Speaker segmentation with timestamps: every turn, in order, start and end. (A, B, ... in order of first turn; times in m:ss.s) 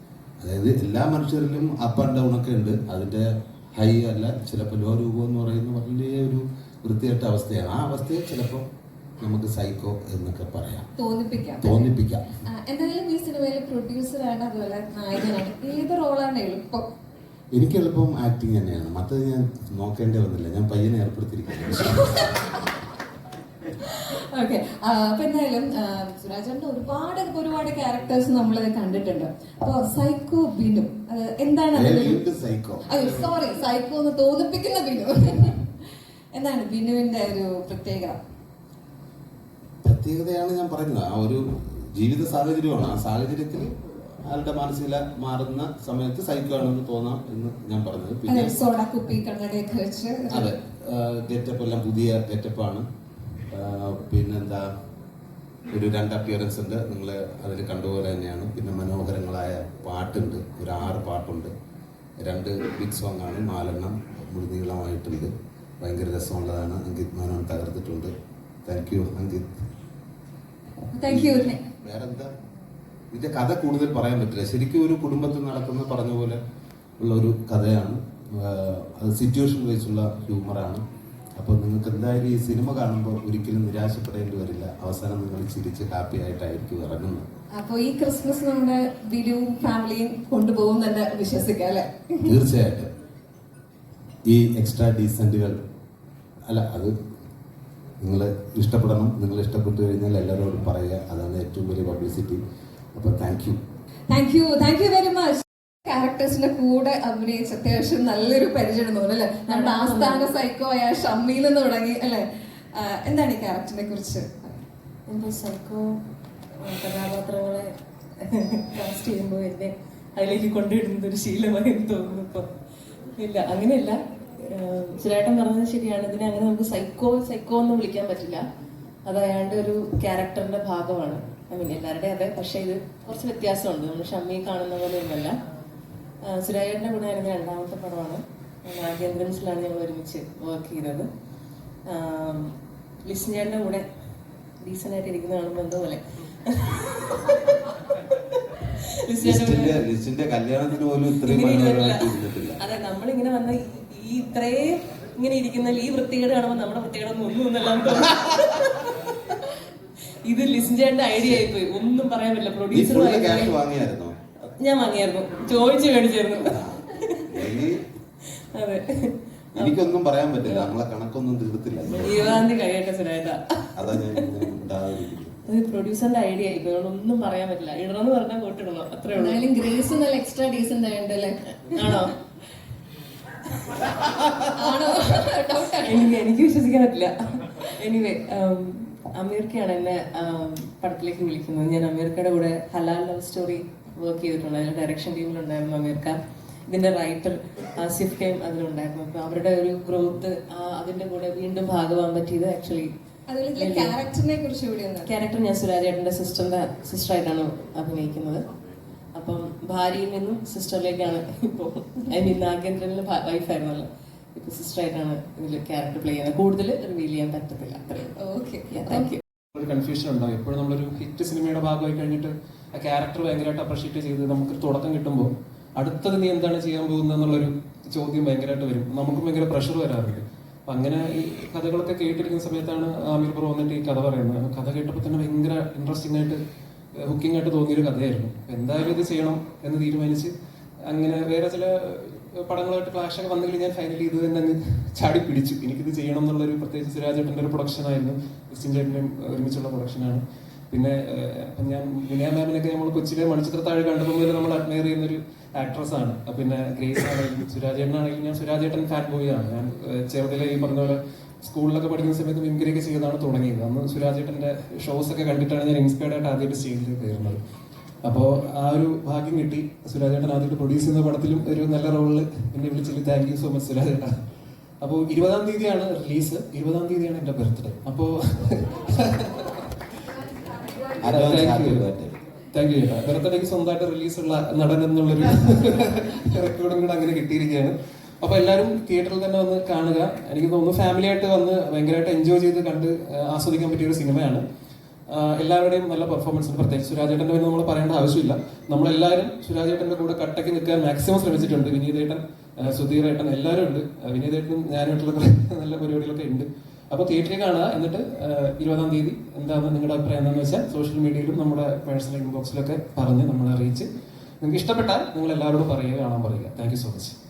0:00.4-0:08.7 A
0:09.2-0:10.9 A
0:11.0-0:11.9 B
0:11.6-0:12.2 A
0:12.5-0:16.8 B
0:17.5-0:22.2 A
0:23.9-0:32.2 B
0:31.7-0:32.8 A
0:32.9-0:35.6 B
0:36.3-0:38.2 B
0:39.8-0:48.6 A
0:48.3-0:50.5 B
0:50.3-0:52.8 A
0:53.5-0:54.6 A
0:55.7-1:01.5 A
1:02.2-1:08.1 A
1:08.6-1:09.5 A
1:10.9-1:11.6 B
1:11.1-1:12.3 A
1:13.1-1:16.4 A
1:17.0-1:20.8 A
1:21.4-1:27.3 A
1:27.6-1:32.3 B
1:32.2-1:32.9 A
1:34.3-1:35.6 A
1:36.5-1:36.9 A
1:38.0-1:42.4 A
1:43.0-1:43.6 A
1:44.1-1:54.6 B
1:49.5-1:50.3 C
1:55.1-1:55.9 C
1:56.6-2:02.5 C
2:03.2-2:08.4 C
2:09.0-2:15.4 C
2:16.2-2:21.1 C
2:21.9-2:22.5 C
2:23.0-2:23.9 C
2:24.6-2:27.7 C
2:28.7-2:29.8 C
2:29.2-2:32.6 A
2:31.2-2:39.4 C
2:40.2-2:43.6 C
2:42.7-2:44.1 A
2:44.4-2:47.4 C
2:46.5-2:47.8 A
2:48.2-2:49.7 C
2:49.6-2:52.4 A
2:50.4-2:50.7 C
2:52.0-2:54.2 C
2:53.8-2:55.4 A
2:55.5-2:59.5 C
2:59.2-3:02.1 B
3:01.7-3:02.1 C
3:04.6-3:06.2 B
3:05.8-3:22.9 C
3:23.3-3:25.1 B
3:23.6-3:24.0 C
3:25.0-3:28.4 C
3:29.2-3:38.1 C
3:38.2-3:39.1 B
3:38.8-3:39.2 C
3:39.5-3:56.4 D
3:57.0-4:00.3 D
4:00.9-4:27.4 D
4:28.0-4:34.2 D
4:34.8-4:39.6 D
4:41.0-4:42.1 A
4:41.1-4:41.9 D
4:42.5-4:54.4 D
4:55.1-5:13.9 D
5:14.4-5:17.2 D